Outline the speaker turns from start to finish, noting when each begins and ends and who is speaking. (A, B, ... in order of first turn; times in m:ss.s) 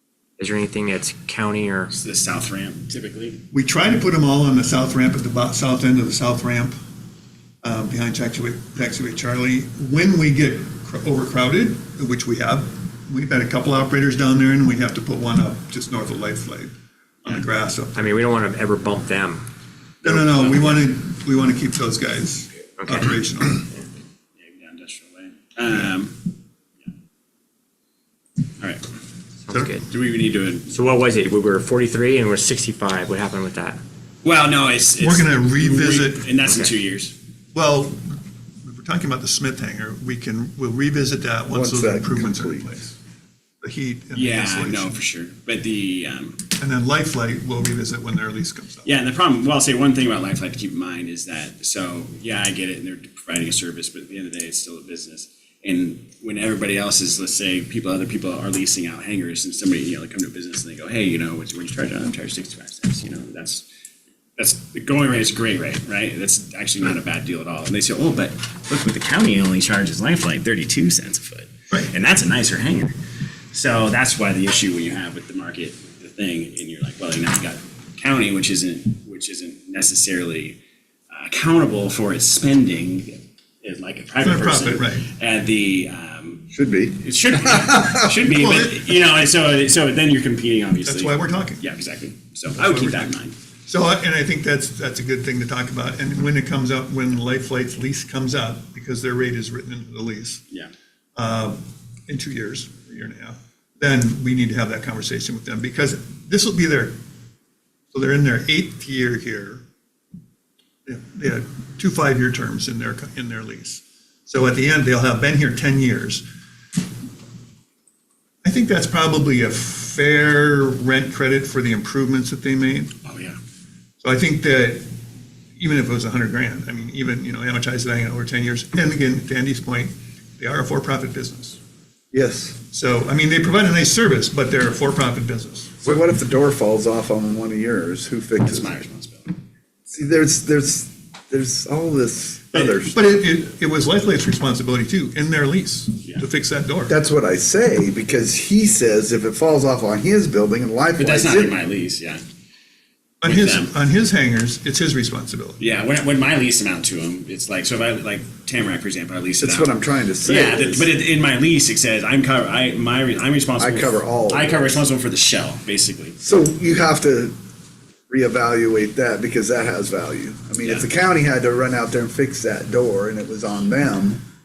0:00.4-0:01.9 A
0:01.9-0:03.4 B
0:03.5-0:06.8 C
0:07.6-0:16.7 C
0:17.2-0:18.0 C
0:18.0-0:19.4 A
0:20.0-0:23.7 C
0:24.4-0:26.3 B
0:28.6-0:28.9 B
0:29.5-0:29.8 A
0:29.9-0:30.8 B
0:30.7-0:33.8 A
0:34.2-0:37.2 B
0:35.0-0:36.4 C
0:37.5-0:42.9 C
0:41.5-0:42.8 D
0:43.6-0:45.0 C
0:44.1-0:46.5 B
0:46.6-0:48.9 C
0:48.8-1:03.7 B
1:04.4-1:13.0 B
1:13.5-1:20.6 B
1:21.1-1:33.4 B
1:24.2-1:25.1 C
1:26.5-1:27.0 D
1:28.2-1:28.8 C
1:30.8-1:31.7 C
1:32.6-1:33.1 C
1:33.7-1:40.4 C
1:41.2-1:47.0 C
1:47.9-1:49.6 C
1:50.9-1:56.2 C
1:58.4-2:02.9 C
2:03.0-2:03.4 B
2:04.0-2:04.8 C
2:05.6-2:11.6 C
2:12.1-2:12.6 D
2:12.7-2:16.0 C
2:15.8-2:18.8 D
2:18.5-2:19.4 B
2:19.9-2:23.0 D
2:22.6-2:26.9 C
2:26.9-2:31.6 D
2:31.0-2:32.2 B
2:33.2-2:35.6 C
2:33.2-2:33.7 B
2:35.6-2:46.2 B
2:39.4-2:40.9 D
2:43.6-2:44.8 D
2:46.2-2:47.3 D
2:48.1-2:54.2 D